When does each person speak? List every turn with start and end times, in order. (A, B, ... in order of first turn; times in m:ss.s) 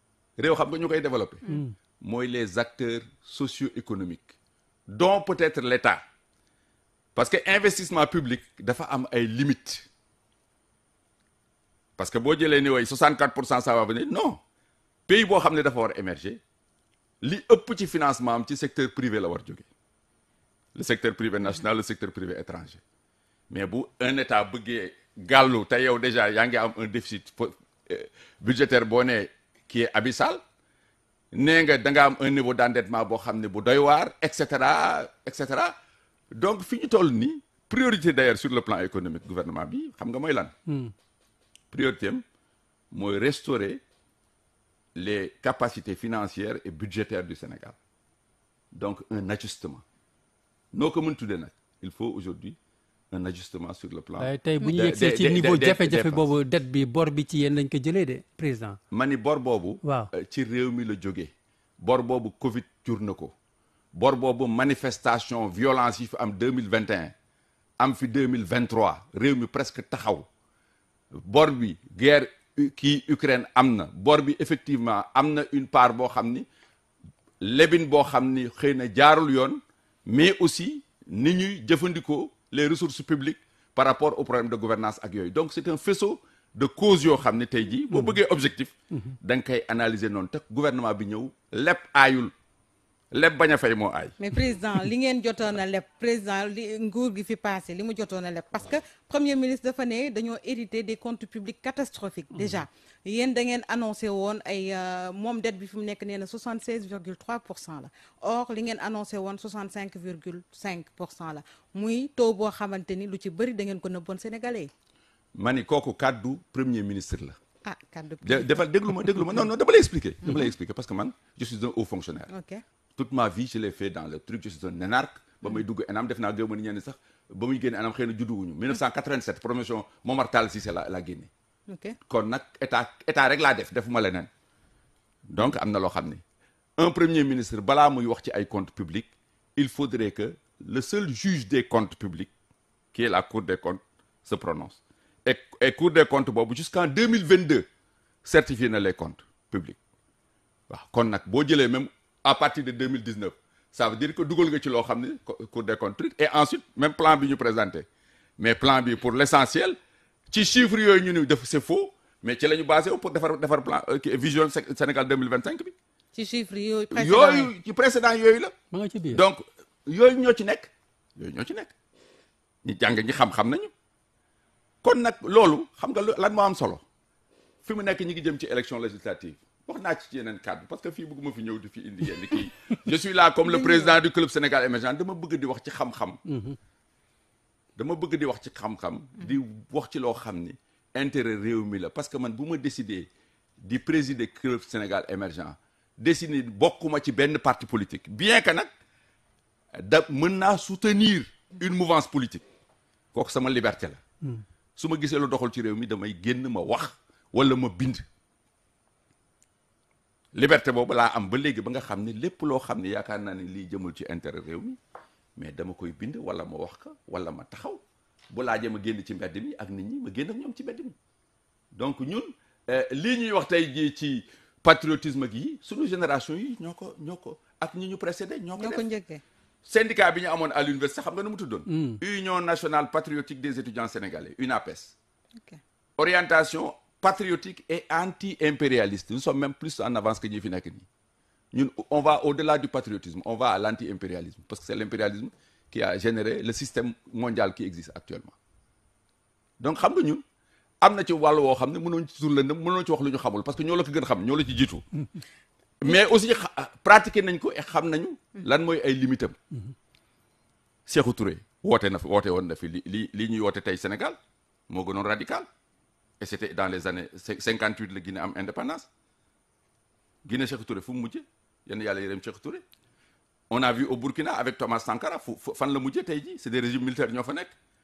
0:00.4-0:01.4 A
0:01.5-0:01.8 B
0:02.0-0:04.3 A
0:04.9-0:06.0 A
0:07.2-0:09.9 A
0:12.0-0:14.4 A
0:15.1-0:16.4 A
0:17.2-0:19.7 A
0:20.8-0:22.8 A
0:23.5-0:30.4 A
0:31.3-0:35.8 A
0:36.3-0:40.5 A
0:40.7-0:40.9 B
0:41.7-0:42.2 A
0:42.9-0:43.8 A
0:45.0-0:47.8 A
0:48.7-0:49.8 A
0:50.7-0:52.6 A
0:53.1-0:56.3 A
0:54.2-0:58.8 B
0:58.9-1:03.3 A
0:59.8-1:00.1 B
1:03.9-1:07.1 A
1:07.8-1:10.3 A
1:11.1-1:16.5 A
1:17.4-1:32.3 A
1:33.1-1:34.2 A
1:34.2-1:54.7 C
1:42.4-1:42.6 B
1:55.4-1:57.4 A
1:57.6-1:58.5 C
1:58.2-2:02.3 A
2:02.3-2:02.6 C
2:03.0-2:11.3 A
2:11.7-2:12.0 C
2:12.1-2:14.3 A
2:15.3-2:16.2 A
2:16.8-2:22.3 A
2:22.9-2:27.7 A
2:28.2-2:29.8 A
2:30.7-2:37.9 A
2:38.4-2:39.8 A
2:40.3-2:45.8 A
2:46.2-2:47.5 C
2:46.9-2:48.5 A
2:48.7-2:49.2 B
2:49.1-2:51.7 A
2:52.6-2:53.7 A
2:54.8-2:56.8 A
2:57.6-3:06.2 A
3:03.5-3:03.9 C
3:06.3-3:06.6 B
3:07.8-3:13.1 A
3:13.6-3:18.7 A
3:19.7-3:22.4 A
3:23.1-3:24.0 A
3:24.8-3:28.1 A
3:30.3-3:34.8 A
3:35.4-3:41.0 A
3:41.7-3:48.8 A
3:48.6-3:49.2 C
3:49.6-3:55.0 A
3:51.7-3:52.0 B
3:56.0-4:00.9 A
4:01.5-4:08.4 A
4:09.6-4:10.2 A
4:10.8-4:14.8 A
4:15.8-4:19.4 A
4:20.9-4:24.2 A
4:24.7-4:25.5 A
4:26.2-4:28.9 A
4:30.2-4:32.6 A
4:33.5-4:37.5 A